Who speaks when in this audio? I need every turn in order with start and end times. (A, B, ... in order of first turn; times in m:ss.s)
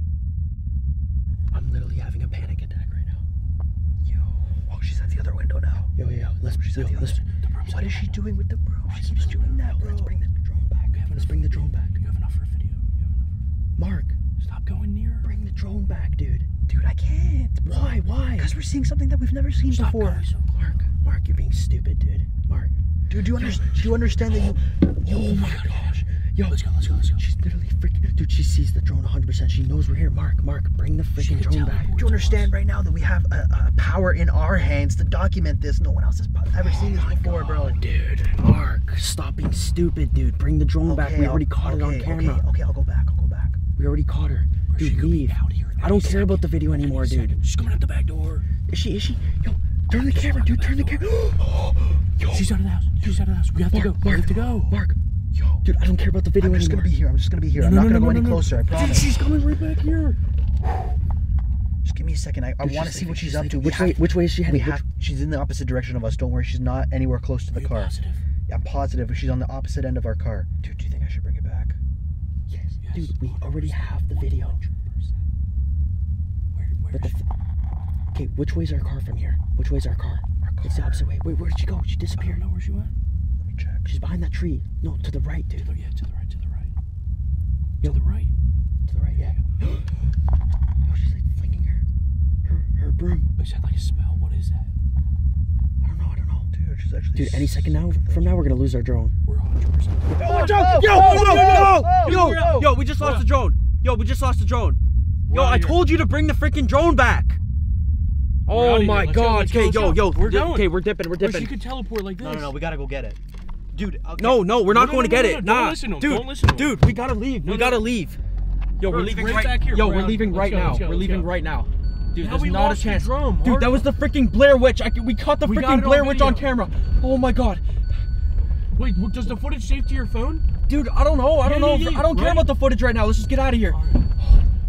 0:01.5-0:03.2 A
0:04.0-0:05.9 B
0:06.0-0:07.2 A
0:06.5-0:10.2 B
0:07.4-0:08.2 C
0:08.9-0:09.6 C
0:09.4-0:12.0 A
0:10.9-0:13.3 C
0:13.8-0:14.2 A
0:14.4-0:15.3 C
0:15.2-0:16.5 A
0:16.7-0:17.8 B
0:17.7-0:18.5 A
0:18.4-0:20.2 B
0:19.7-0:20.8 C
0:20.6-0:22.7 A
0:23.1-0:25.8 B
0:23.4-0:24.1 A
0:24.9-0:31.9 A
0:25.6-0:26.0 C
0:26.5-0:27.2 C
0:31.2-0:32.5 C
0:31.9-0:37.8 B
0:36.6-0:42.4 A
0:40.8-0:43.6 B
0:43.8-0:47.4 A
0:44.7-0:48.4 C
0:48.7-0:55.0 A
0:50.0-0:51.2 C
0:52.3-0:54.7 C
0:55.4-0:55.6 B
0:55.6-0:56.9 A
0:56.4-0:59.1 B
0:57.6-1:00.2 C
1:01.8-1:11.8 B
1:02.6-1:04.8 A
1:07.5-1:08.2 C
1:12.5-1:14.6 A
1:12.8-1:15.0 C
1:16.5-1:17.2 C
1:16.9-1:17.2 A
1:18.1-1:22.4 A
1:20.4-1:21.1 B
1:22.2-1:22.9 C
1:23.4-1:23.9 B
1:23.9-1:25.7 A
1:25.6-1:26.7 C
1:27.8-1:28.3 C
1:28.9-1:29.9 A
1:30.8-1:31.8 A
1:32.4-1:33.3 A
1:33.4-1:34.7 C
1:35.8-1:36.5 A
1:36.5-1:38.5 B
1:37.2-1:39.1 A
1:39.3-1:43.3 C
1:40.1-1:44.8 A
1:40.2-1:42.7 B
1:45.3-1:45.8 C
1:45.3-1:47.4 A
1:48.5-1:51.5 A
1:48.5-1:52.6 C
1:52.2-1:53.2 B
1:53.7-1:54.5 B
1:54.2-1:58.2 A
1:54.7-1:56.8 C
1:57.4-1:57.8 C
1:58.8-2:07.6 A
1:58.8-2:01.3 C
2:02.2-2:03.8 C
2:05.4-2:06.5 C
2:08.8-2:10.4 C
2:10.7-2:14.4 A
2:11.4-2:12.5 C
2:13.7-2:14.1 C